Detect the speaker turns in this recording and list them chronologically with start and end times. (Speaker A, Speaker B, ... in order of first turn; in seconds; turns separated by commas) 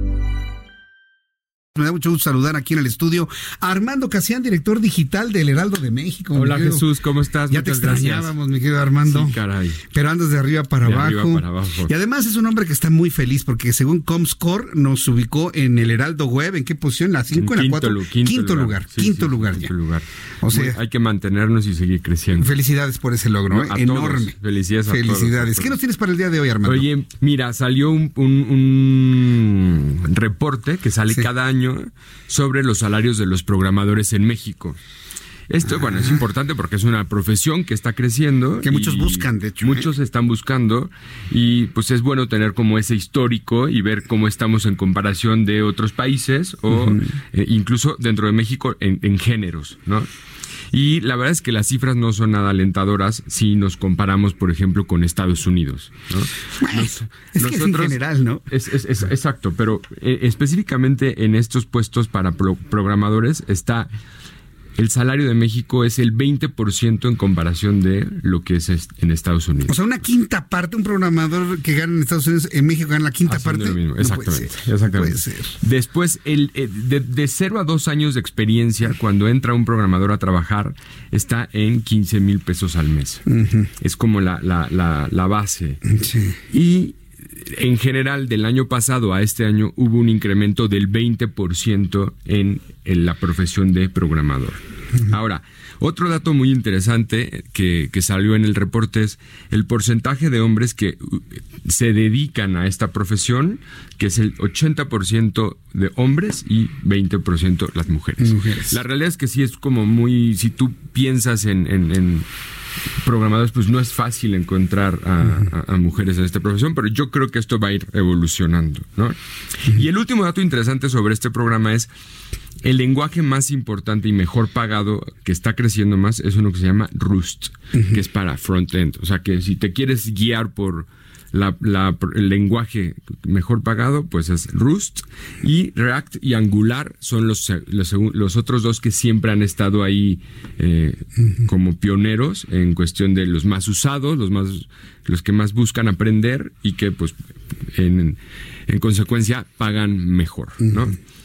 Speaker A: 1.8-6.9, Speaker B: 6.3-8.3, Speaker A: 7.5-19.7, Speaker B: 9.0-9.8, Speaker B: 10.8-11.9, Speaker B: 17.3-22.5, Speaker A: 20.4-20.8, Speaker A: 22.4-24.4, Speaker B: 23.5-25.8, Speaker A: 24.9-26.9, Speaker B: 26.6-34.8, Speaker B: 35.5-50.1, Speaker A: 35.7-36.2, Speaker A: 38.6-39.9, Speaker A: 46.7-47.0, Speaker B: 50.7-63.9, Speaker A: 56.6-58.5, Speaker B: 64.8-69.8, Speaker A: 69.7-75.6, Speaker B: 73.3-83.3, Speaker A: 83.3-83.7, Speaker B: 83.8-85.8, Speaker A: 85.9-86.4, Speaker B: 86.5-112.3, Speaker A: 108.2-108.8, Speaker B: 113.0-121.9, Speaker B: 122.6-147.2, Speaker B: 147.7-151.0